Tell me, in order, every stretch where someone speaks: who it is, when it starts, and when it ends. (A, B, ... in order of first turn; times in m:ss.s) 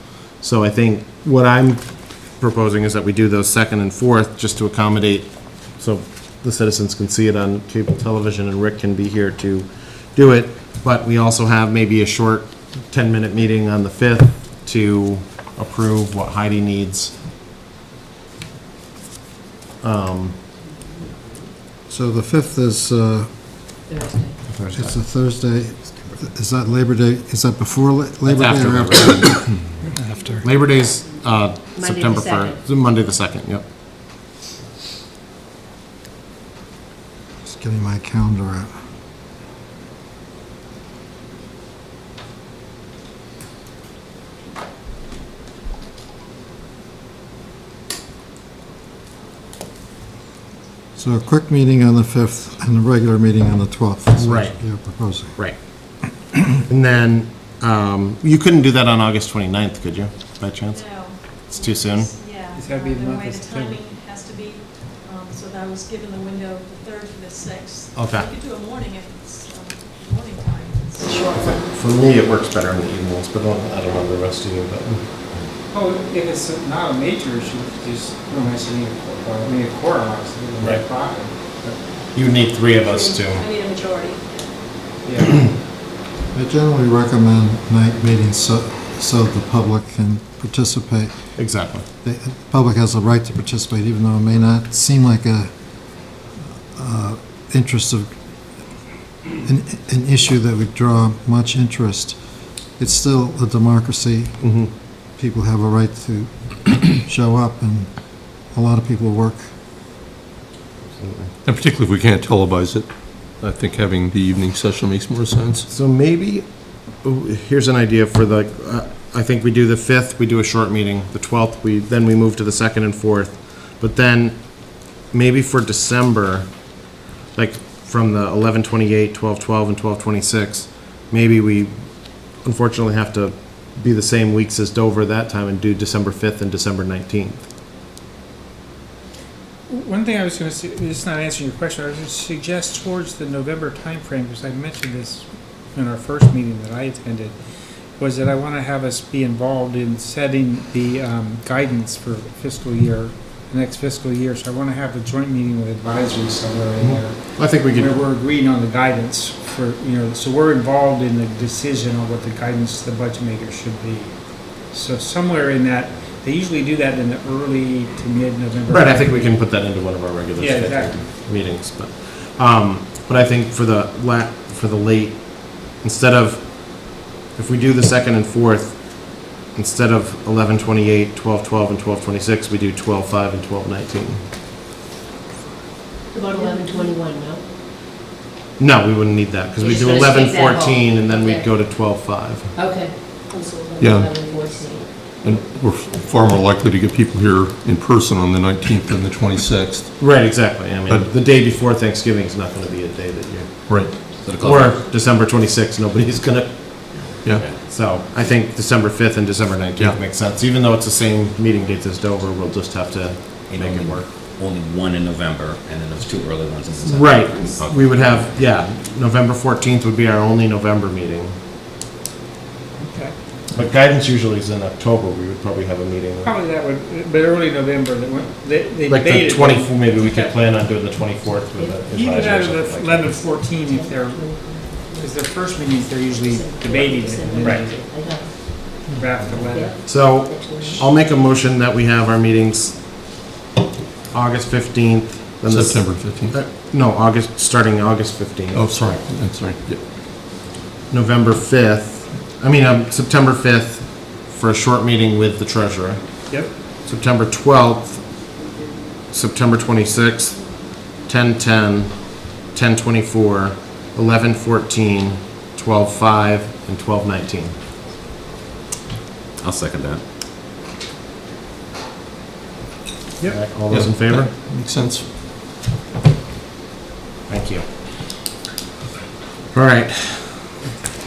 0:00.4-0:17.2 A
0:19.8-0:20.5 A
0:21.9-0:23.5 B
0:23.9-0:24.4 C
0:24.5-0:25.0 A
0:24.7-0:29.7 B
0:28.2-0:29.6 A
0:29.8-0:30.5 D
0:30.4-0:33.6 A
0:31.8-0:32.6 C
0:37.4-0:38.7 B
0:51.0-0:55.4 B
0:54.2-0:54.8 A
0:56.7-1:02.1 A
1:00.7-1:11.3 E
1:02.6-1:03.8 D
1:07.9-1:08.3 A
1:11.3-1:15.1 A
1:15.7-1:21.8 D
1:22.1-1:23.5 A
1:22.9-1:24.4 E
1:25.0-1:25.5 D
1:26.3-1:35.5 B
1:31.4-1:31.8 A
1:36.4-1:38.1 B
1:39.4-1:42.2 B
1:42.8-1:44.7 B
1:44.4-1:44.7 A
1:45.2-1:47.9 B
1:48.5-1:49.5 B
1:51.0-1:51.3 A
1:51.4-1:55.7 F
1:55.7-2:06.8 A
2:07.3-2:17.5 A
2:19.7-2:27.4 D
2:28.0-2:49.4 D
2:36.8-2:38.0 A
2:48.7-3:04.2 A
2:50.4-2:51.1 D
3:06.1-3:07.5 C
3:08.6-3:12.5 A
3:09.6-3:11.5 C
3:12.6-3:15.0 C
3:13.3-3:13.8 E
3:13.8-3:14.2 F
3:15.1-3:19.9 F
3:20.0-3:23.7 A
3:23.7-3:24.1 F
3:24.2-3:24.8 G
3:24.4-3:34.1 A
3:26.9-3:27.7 G
3:27.2-3:27.5 F
3:33.4-3:38.2 G
3:36.9-3:41.4 A
3:42.8-3:43.2 D
3:43.5-3:46.3 A
3:46.2-3:50.4 D
3:48.9-3:53.2 A
3:51.5-3:51.8 C
3:51.9-3:57.8 D
3:53.5-3:55.2 C
3:56.1-3:58.8 C
3:58.7-3:59.8 D
3:59.4-4:00.9 C
3:59.8-4:02.8 A
4:04.1-4:08.8 A
4:05.4-4:06.4 F
4:08.5-4:09.9 F
4:10.9-4:16.3 A
4:16.3-4:16.6 D
4:16.8-4:18.1 A
4:19.1-4:20.4 A
4:21.0-4:27.6 A
4:29.4-4:30.0 G
4:33.2-4:34.3 A
4:33.7-4:35.1 F
4:37.3-4:37.7 A
4:39.5-4:40.6 A